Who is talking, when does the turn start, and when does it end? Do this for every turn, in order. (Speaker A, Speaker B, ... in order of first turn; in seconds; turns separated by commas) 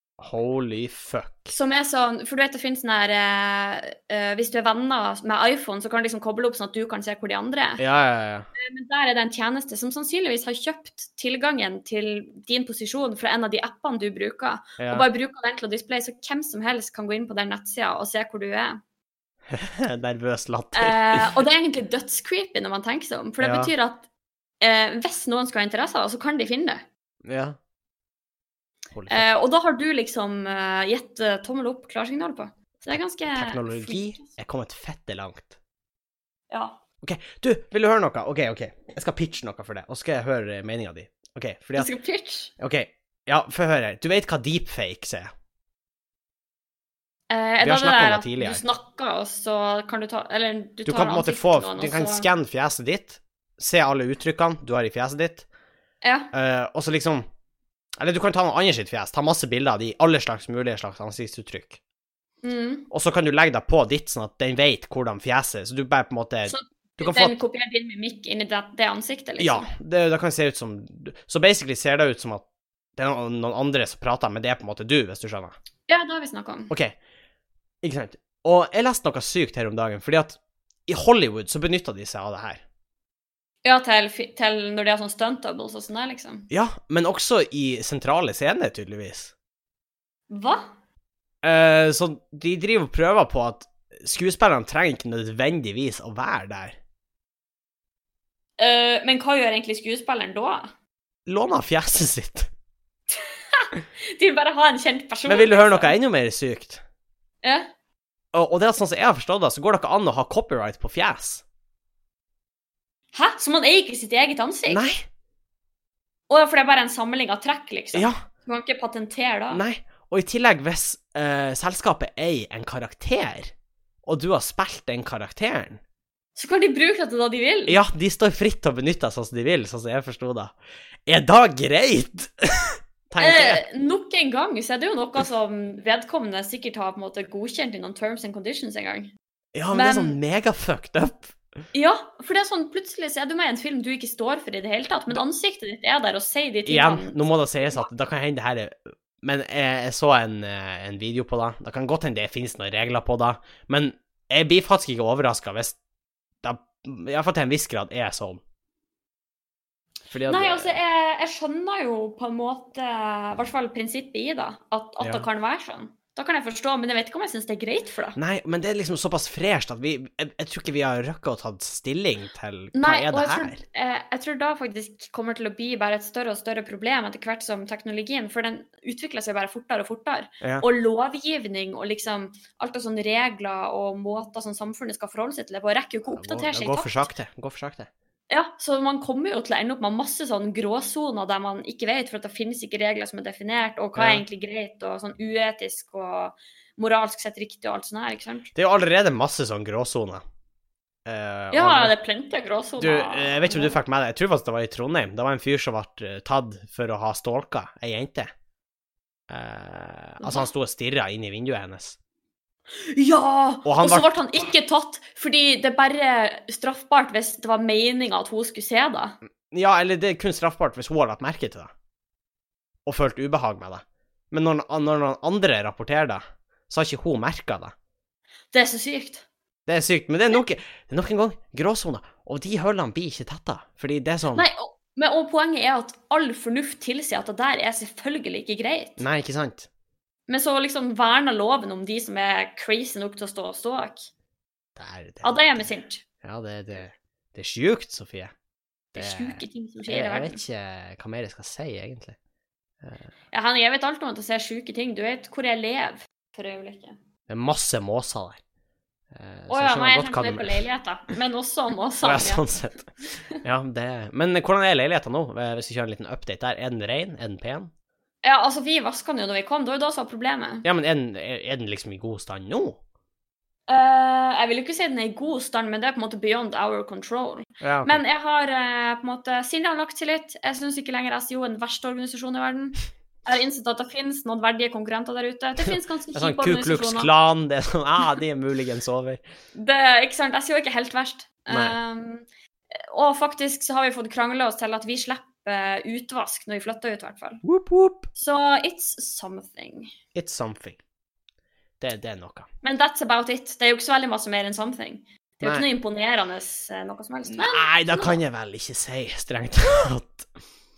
Speaker A: 0.2-1.6, Speaker B: 1.5-7.8, Speaker A: 7.8-8.5, Speaker B: 8.6-18.8, Speaker A: 14.8-15.1, Speaker A: 19.5-21.3, Speaker B: 20.8-24.1, Speaker A: 23.4-23.7, Speaker B: 24.6-26.8, Speaker A: 27.2-27.6, Speaker A: 28.9-29.3, Speaker B: 29.1-34.3, Speaker A: 33.3-35.5, Speaker B: 36.5-36.8, Speaker A: 37.0-41.9, Speaker B: 41.8-42.5, Speaker A: 42.6-45.3, Speaker B: 47.3-52.3, Speaker A: 47.6-48.6, Speaker A: 50.9-55.5, Speaker B: 56.0-56.3, Speaker A: 56.3-57.3, Speaker A: 58.0-61.8, Speaker B: 62.4-62.9, Speaker A: 62.9-67.4, Speaker B: 66.5-69.7, Speaker A: 69.4-72.5, Speaker A: 73.0-75.5, Speaker B: 75.9-76.7, Speaker A: 76.7-77.0, Speaker A: 77.8-82.6, Speaker B: 83.6-86.5, Speaker A: 86.5-89.3, Speaker B: 90.3-90.7, Speaker A: 91.4-96.8, Speaker B: 98.6-100.7, Speaker A: 101.3-102.5, Speaker B: 103.1-106.0, Speaker A: 105.3-106.8, Speaker B: 107.4-107.7, Speaker A: 108.3-111.4, Speaker B: 113.1-114.8, Speaker A: 114.7-115.0, Speaker B: 116.3-119.6, Speaker A: 117.9-118.2, Speaker A: 119.5-123.5, Speaker A: 124.1-125.8, Speaker B: 126.4-127.8, Speaker A: 127.7-130.5, Speaker A: 131.1-133.6, Speaker B: 133.2-139.1, Speaker A: 139.6-141.4, Speaker B: 139.7-140.2, Speaker B: 141.7-147.9, Speaker A: 146.7-155.8, Speaker A: 156.4-158.4, Speaker A: 160.1-160.8, Speaker B: 160.3-168.2, Speaker A: 165.0-165.3, Speaker A: 168.2-173.6, Speaker B: 172.7-187.1, Speaker A: 186.1-187.9, Speaker B: 188.3-198.5, Speaker A: 193.9-194.2, Speaker A: 198.5-200.2, Speaker A: 201.1-201.9, Speaker B: 201.5-203.8, Speaker A: 202.8-208.3, Speaker A: 209.3-212.0, Speaker B: 210.2-210.5, Speaker B: 212.7-219.2, Speaker A: 213.7-214.1, Speaker A: 219.5-221.7, Speaker A: 222.9-227.7, Speaker B: 228.5-229.2, Speaker A: 229.7-234.4, Speaker B: 234.3-239.0, Speaker A: 239.0-239.7, Speaker B: 240.3-244.1, Speaker A: 244.8-245.7, Speaker B: 245.2-246.1, Speaker A: 246.2-248.3, Speaker B: 248.9-250.4, Speaker A: 249.0-252.2, Speaker A: 252.8-253.1, Speaker B: 253.3-257.0, Speaker A: 257.3-258.4, Speaker A: 259.1-260.6, Speaker B: 259.5-262.4, Speaker A: 262.0-267.7, Speaker B: 268.2-270.6, Speaker A: 270.6-272.8, Speaker B: 273.7-287.1, Speaker A: 277.6-278.0, Speaker A: 286.1-289.2, Speaker B: 289.6-297.4, Speaker A: 291.5-291.8, Speaker A: 297.4-298.1, Speaker B: 298.1-299.9, Speaker A: 300.1-300.8, Speaker A: 301.8-302.5, Speaker B: 302.6-308.2, Speaker A: 307.3-310.3